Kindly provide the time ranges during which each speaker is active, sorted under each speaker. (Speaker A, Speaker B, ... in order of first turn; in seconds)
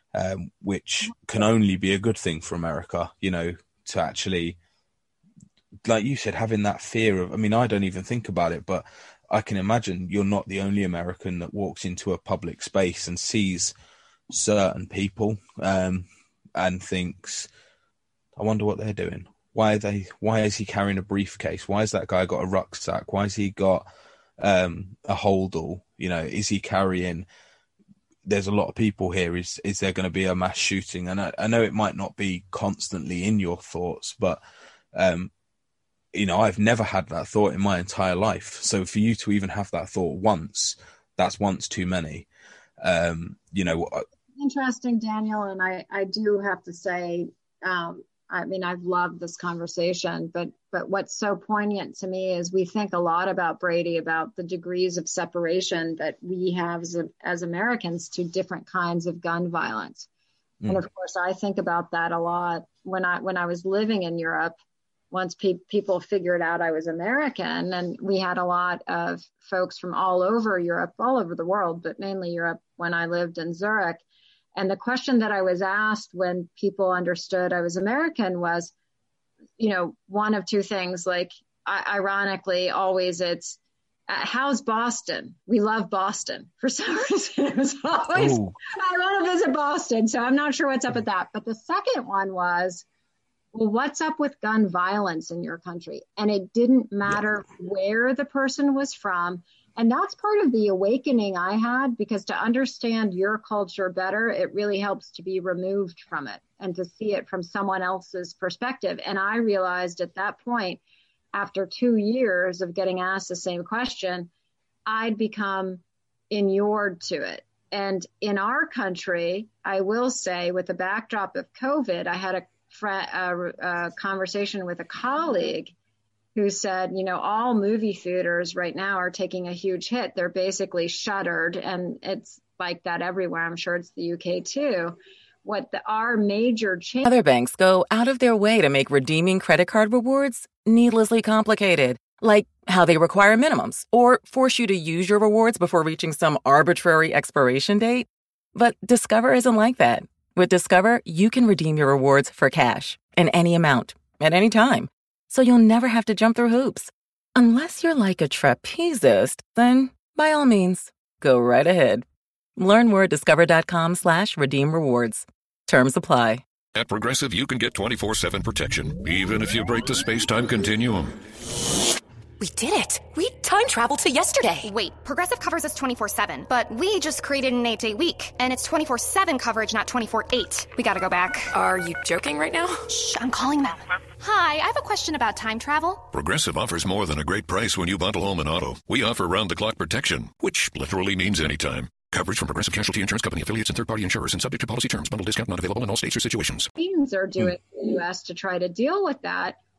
Speaker A: 0.1-4.6, 5.8-13.7, 14.3-17.5, 18.4-23.9, 24.4-27.3, 28.2-34.4, 35.0-35.3, 36.1-42.3, 42.8-44.0, 88.1-88.6
Speaker B: 44.4-60.1, 60.7-64.6, 65.1-74.0, 74.5-78.7, 79.6-92.8, 93.5-110.8, 111.3-114.3, 114.9-125.7, 126.3-137.1, 196.8-199.6
Speaker C: 137.0-162.1, 162.6-166.4
Speaker D: 166.8-171.2, 186.1-196.7
Speaker E: 172.4-174.7, 181.6-182.7
Speaker F: 174.4-181.6, 182.9-186.0